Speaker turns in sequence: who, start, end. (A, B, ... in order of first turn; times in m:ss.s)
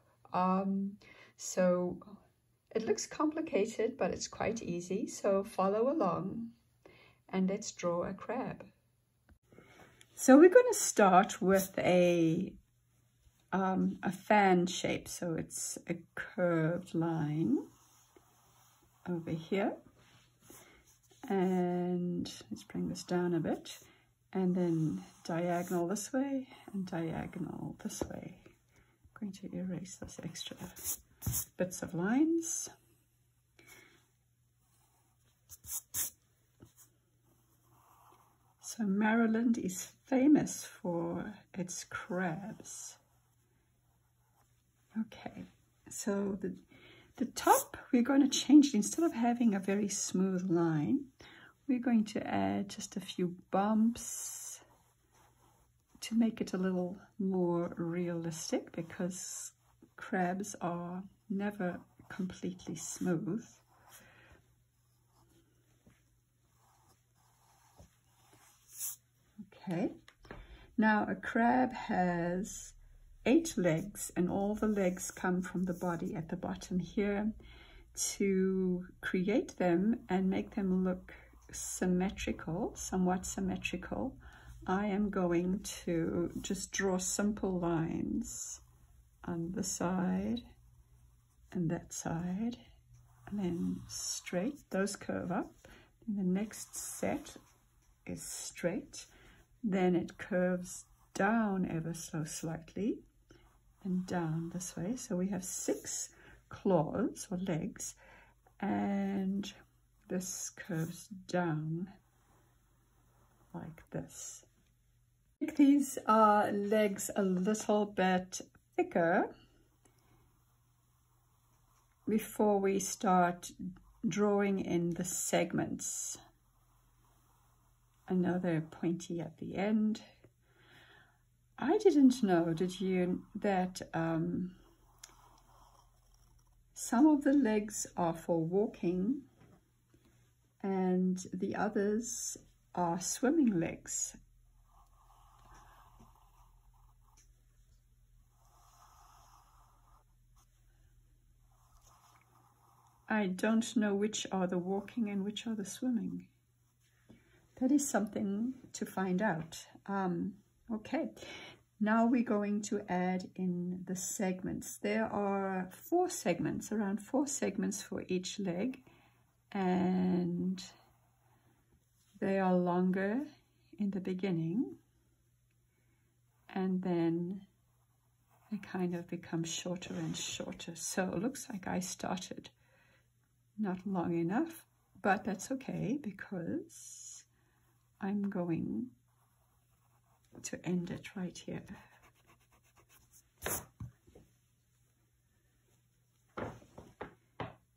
0:00.3-0:02.2 A
0:02.7-0:06.5 A
0:07.3-0:08.7 A
0:10.2-0:12.6 A
0:13.5-0:17.7 A
0:19.1-0:19.8 A
0:21.3-0:28.5 A
0:29.1-0:30.9 A
0:31.6-0:32.7 A
0:38.6-0:43.0 A
0:45.0-0:46.6 A
0:47.2-0:51.1 A
0:51.7-0:54.6 A
0:56.0-1:03.6 A
1:09.4-1:10.0 A
1:10.8-1:17.3 A
1:17.9-1:28.6 A
1:29.2-1:30.4 A
1:31.5-1:32.6 A
1:33.3-1:37.4 A
1:38.1-1:39.1 A
1:39.6-1:43.0 A
1:43.8-1:48.0 A
1:48.6-1:49.5 A
1:50.1-1:51.9 A
1:53.5-1:54.5 A
1:55.4-1:59.3 A
2:02.1-2:06.2 A
2:08.1-2:10.0 A
2:11.6-2:14.6 A
2:16.8-2:19.2 A
2:20.6-2:24.2 A
2:33.1-2:36.3 A
2:37.6-2:41.1 A
2:41.8-2:48.8 A
2:49.5-2:50.7 A
2:52.2-2:54.8 A
2:56.5-2:57.5 A
2:58.5-3:02.5 A
3:03.6-3:07.3 A
3:08.0-3:08.9 A
3:10.4-3:11.8 A